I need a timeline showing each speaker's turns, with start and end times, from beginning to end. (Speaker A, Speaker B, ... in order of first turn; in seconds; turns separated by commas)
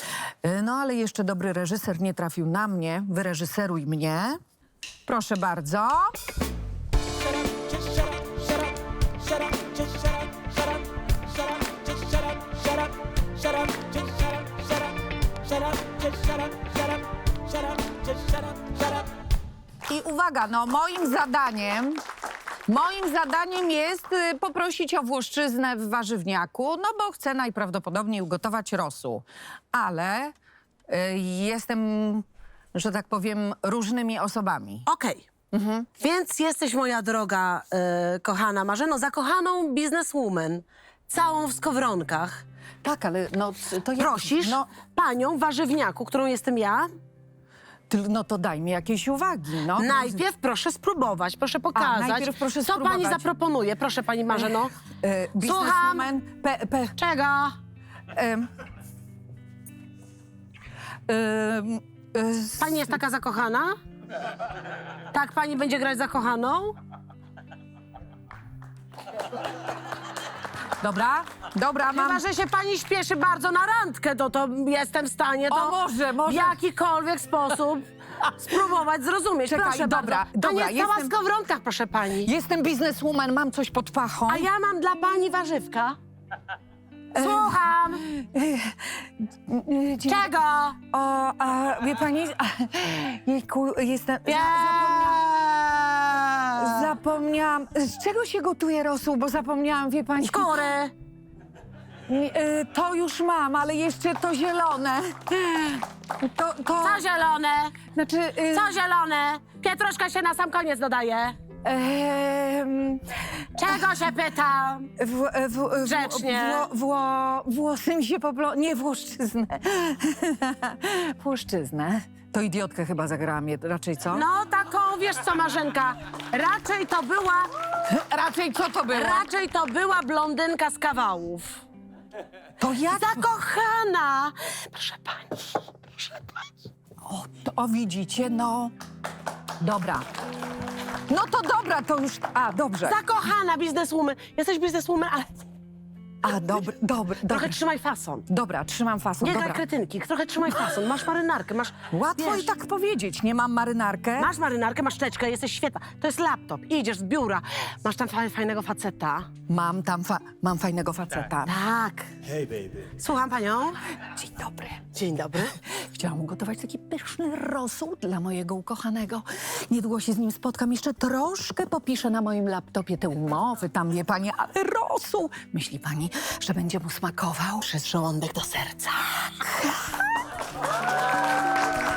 Speaker A: 0.4-4.4, Speaker A: 5.1-6.2, Speaker B: 9.5-10.5, Speaker B: 13.7-14.0, Speaker B: 15.7-16.8, Speaker B: 17.8-18.8, Speaker A: 19.9-22.0, Speaker A: 22.7-30.4, Speaker A: 30.9-34.9, Speaker B: 34.9-35.3, Speaker A: 35.5-35.9, Speaker B: 36.0-42.4, Speaker A: 42.8-44.7, Speaker B: 44.0-46.9, Speaker A: 47.9-50.2, Speaker B: 49.8-54.7, Speaker A: 51.7-53.3, Speaker A: 54.5-57.0, Speaker B: 55.4-56.1, Speaker B: 57.0-57.6, Speaker A: 58.1-58.5, Speaker A: 61.1-63.0, Speaker B: 62.6-63.7, Speaker B: 65.1-66.8, Speaker A: 70.8-72.2, Speaker B: 71.9-82.3, Speaker A: 75.5-76.6, Speaker A: 79.5-81.1, Speaker A: 82.2-84.5, Speaker B: 84.3-86.0, Speaker B: 87.1-88.0, Speaker A: 87.2-90.2, Speaker B: 90.1-90.8, Speaker A: 90.9-95.2, Speaker B: 94.3-96.9, Speaker A: 96.6-100.7, Speaker B: 100.2-100.9, Speaker A: 102.1-107.0, Speaker B: 106.8-107.8, Speaker A: 107.9-108.8, Speaker B: 108.5-111.4, Speaker A: 111.7-113.8, Speaker B: 113.6-114.9, Speaker A: 115.0-124.2, Speaker B: 115.8-116.7, Speaker B: 124.1-127.5, Speaker A: 127.8-129.3, Speaker B: 128.9-131.6, Speaker A: 132.6-133.2, Speaker B: 132.8-136.5, Speaker A: 137.0-138.7, Speaker A: 139.6-140.1, Speaker A: 141.1-143.0, Speaker B: 142.8-145.4, Speaker A: 146.2-147.6, Speaker B: 147.3-148.3, Speaker A: 148.3-149.6, Speaker B: 149.2-152.5, Speaker A: 151.9-154.3, Speaker B: 154.2-159.3, Speaker A: 159.5-161.6, Speaker B: 161.5-162.1, Speaker B: 163.0-163.8, Speaker A: 164.0-164.8, Speaker B: 164.9-165.6, Speaker A: 165.6-177.9, Speaker B: 177.8-179.3, Speaker A: 179.5-180.0